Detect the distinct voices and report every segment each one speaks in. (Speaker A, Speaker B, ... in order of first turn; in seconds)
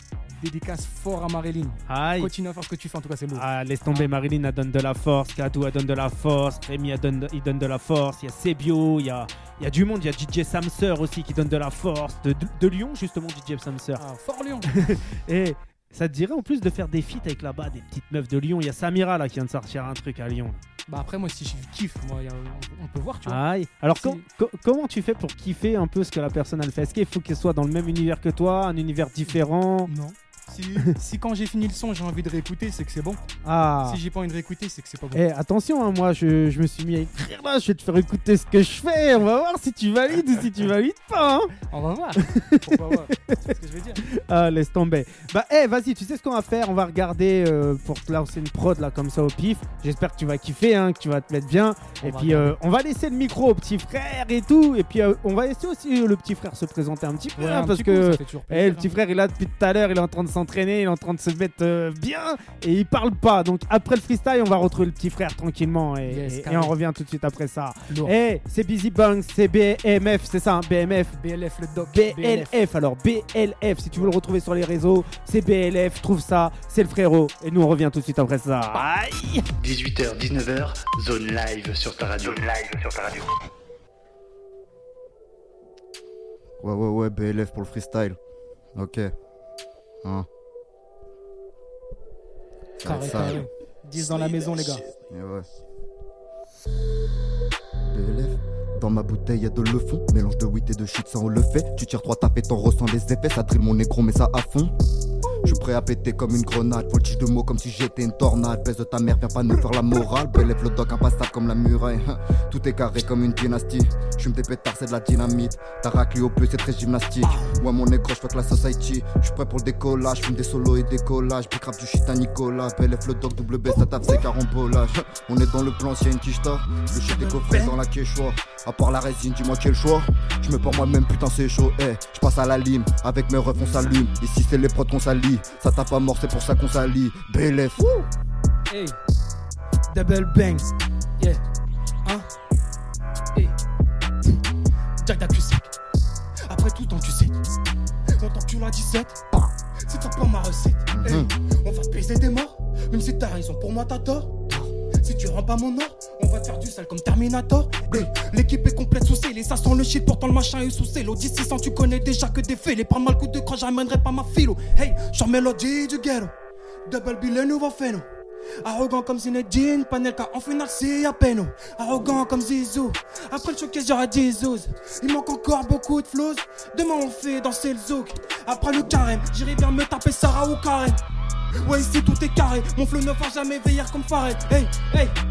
Speaker A: 0.3-4.1, 14.0-14.9, 20.9-23.4, 23.9-24.2, 29.3-33.2, 33.8-35.2, 41.7-44.0, 52.0-52.6, 57.4-58.9, 66.1-66.8, 67.9-68.1, 71.2-72.6, 92.8-94.9, 138.7-139.0, 139.9-140.7
Speaker B: 1.9-2.3, 3.3-14.0, 14.7-20.6, 23.2-29.9, 33.4-34.0, 35.1-41.5, 42.2-43.4, 44.0-71.2, 71.8-79.5
Speaker C: 79.6-83.3
Speaker D: 86.6-88.2, 88.8-89.1, 92.8-93.5, 95.1-95.5, 97.9-104.7, 105.4-137.9, 150.9-151.3
Speaker E: 127.0-127.8, 145.0-145.7, 146.5-147.3, 148.2-149.2, 149.9-154.4, 155.0-166.3, 166.9-168.1, 168.7-181.0, 181.6-185.1